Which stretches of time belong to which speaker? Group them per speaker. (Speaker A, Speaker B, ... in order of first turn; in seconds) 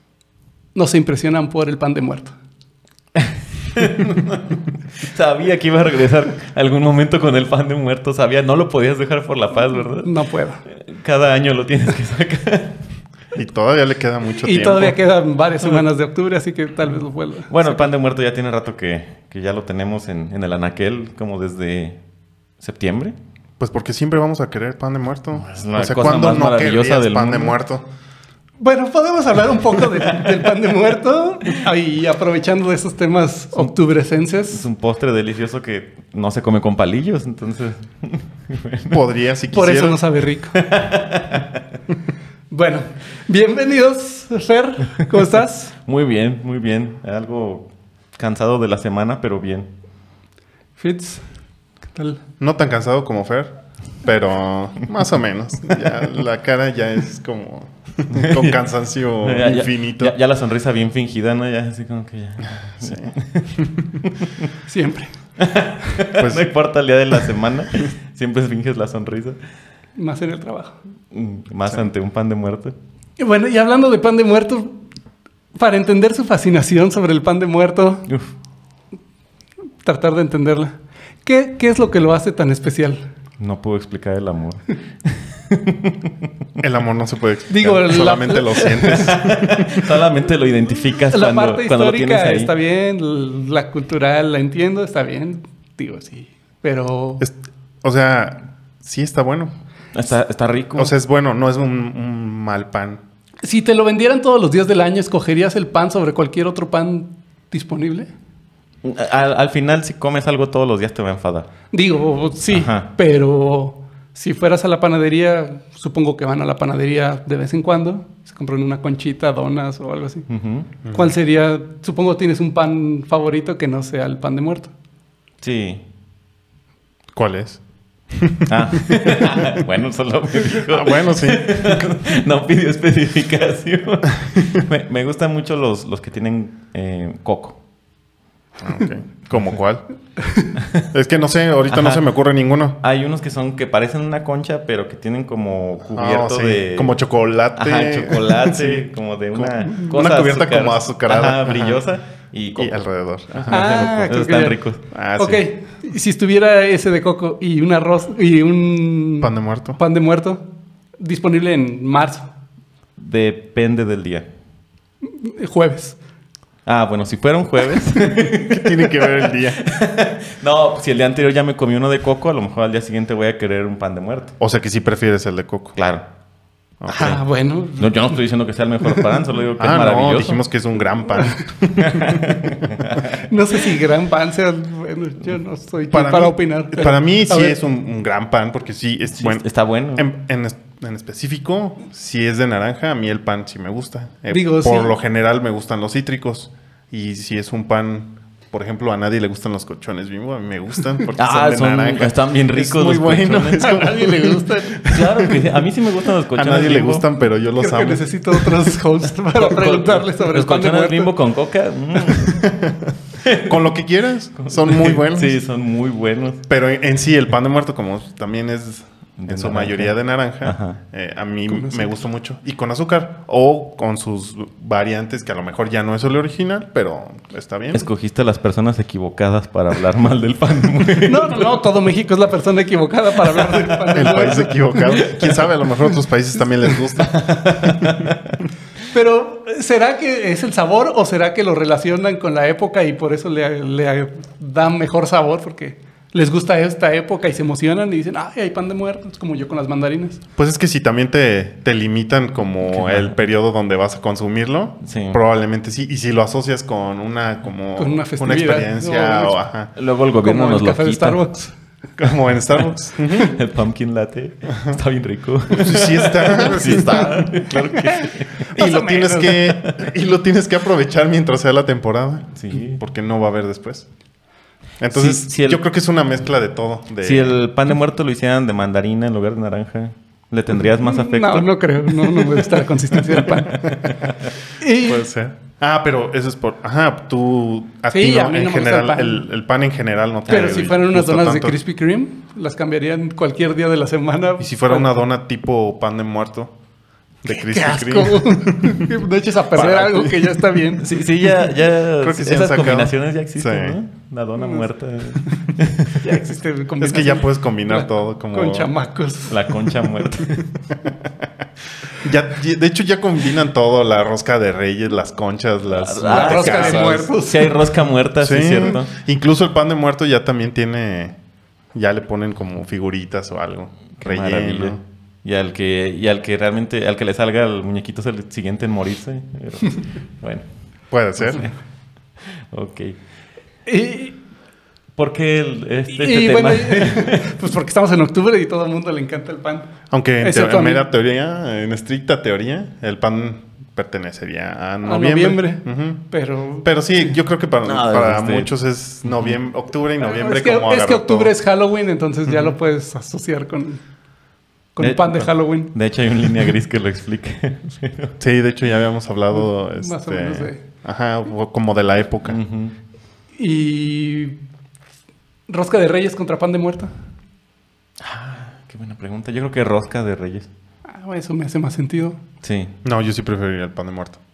Speaker A: 0.7-2.3, 10.0-10.6, 14.3-17.8, 28.6-34.7, 39.5-40.6, 42.5-45.7, 50.8-51.2, 51.9-52.2, 64.7-65.1, 70.0-70.8, 73.2-74.8, 75.5-78.0, 79.8-83.0, 87.5-89.1, 91.1-97.2, 103.4-108.1, 111.7-120.2, 120.9-124.7, 140.2-140.5, 153.5-154.6, 155.2-160.4, 161.0-162.2, 165.2-166.0, 176.9-178.2, 183.1-187.6, 194.3-194.9, 203.6-205.0, 207.5-211.1, 221.5-221.9, 231.1-234.8, 238.9-250.2, 257.8-259.3, 260.2-261.5, 266.4-269.4, 280.8-283.6, 284.6-285.0, 287.9-289.2, 290.3-294.9, 297.3-300.9, 304.4-304.7, 306.0-309.7, 316.0-317.6, 333.6-334.1, 335.9-339.7, 340.2-340.8, 344.8-346.7, 350.0-353.8, 354.8-355.7, 359.4-360.6, 363.4-364.4, 365.5-366.9, 370.9-372.2
Speaker B: 3.1-10.1, 10.7-12.8, 17.5-22.0, 22.6-23.1, 25.4-27.6, 34.5-39.0, 40.5-41.6, 45.9-49.7, 58.1-58.6, 59.2-64.5, 65.4-69.4, 71.1-72.7, 83.4-86.1, 88.9-92.5, 99.9-100.9, 108.8-111.5, 112.5-112.9, 120.3-120.7, 125.4-125.8, 128.5-137.6, 140.6-140.9, 141.7-142.1, 142.8-147.0, 147.6-152.8, 153.3-154.8, 163.0-164.3, 166.7-174.3, 175.8-176.0, 177.8-180.4, 181.8-183.0, 189.2-190.1, 201.1-203.9, 204.9-207.0, 209.3-212.5, 213.2-213.7, 214.4-216.4, 219.2-220.8, 227.7-231.6, 234.9-235.4, 237.0-238.3, 252.7-253.1, 254.8-255.2, 259.8-261.2, 263.0-268.5, 269.5-269.8, 272.3-272.8, 274.9-275.6, 277.0-283.9, 290.3-290.6, 300.8-306.0, 309.3-310.4, 315.8-318.9, 324.0-330.4, 331.2-331.5, 332.2-332.9, 334.9-337.4, 347.6-348.5, 349.1-349.3, 354.8-358.2, 362.2-362.7, 368.0-370.5, 372.4-372.7
Speaker C: 13.3-15.0, 23.6-27.9, 38.9-40.0, 52.4-60.2, 62.8-63.6, 66.1-66.5, 86.6-89.9, 97.2-99.5, 100.7-103.0, 120.8-121.1, 127.1-129.6, 130.5-131.8, 138.6-139.8, 140.9-142.8, 145.9-151.8, 152.6-153.9, 154.9-155.4, 159.2-159.8, 168.2-169.6, 174.4-175.8, 176.8-177.2, 179.6-182.7, 185.9-205.4, 206.3-208.6, 212.4-215.4, 216.4-227.9, 233.9-238.2, 250.4-259.7, 262.0-263.3, 265.5-267.5, 268.5-273.9, 274.8-277.4, 284.8-291.6, 294.4-296.6, 297.2-298.9, 299.5-300.4, 302.0-303.8, 306.8-308.7, 310.7-311.2, 311.9-317.1, 318.2-321.1, 321.7-324.8, 330.9-331.5, 339.9-346.0, 346.6-351.3, 358.2-362.4, 372.8-374.2